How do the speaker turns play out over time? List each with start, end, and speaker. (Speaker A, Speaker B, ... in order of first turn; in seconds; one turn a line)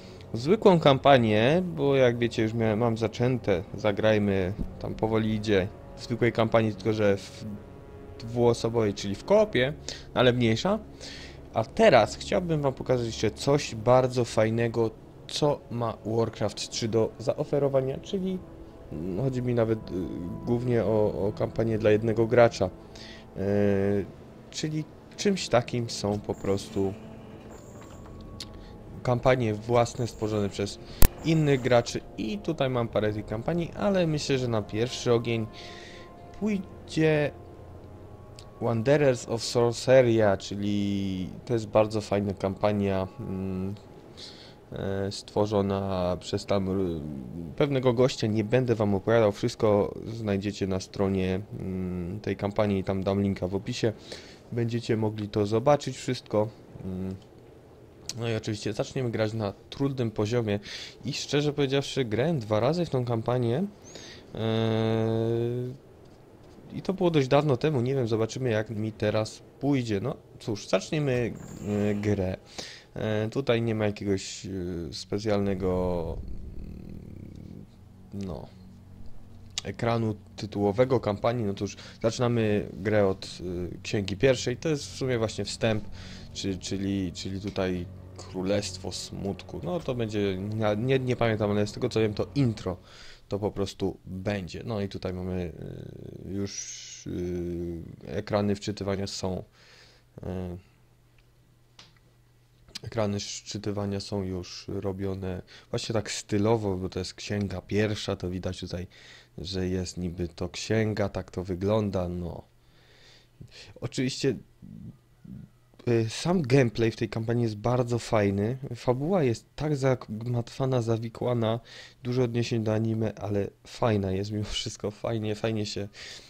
Speaker A: 0.3-7.6
Speaker A: 8.2-10.9
Speaker A: 11.5-22.7
Speaker A: 23.4-27.0
Speaker A: 29.0-35.5
Speaker A: 36.3-37.4
Speaker A: 38.6-43.8
Speaker A: 44.7-54.0
Speaker A: 54.5-57.2
Speaker A: 58.2-63.7
Speaker A: 64.3-65.8
Speaker A: 66.7-72.4
Speaker A: 72.9-77.6
Speaker A: 78.1-78.5
Speaker A: 79.7-99.5
Speaker A: 100.2-100.6
Speaker A: 102.8-112.5
Speaker A: 113.8-125.9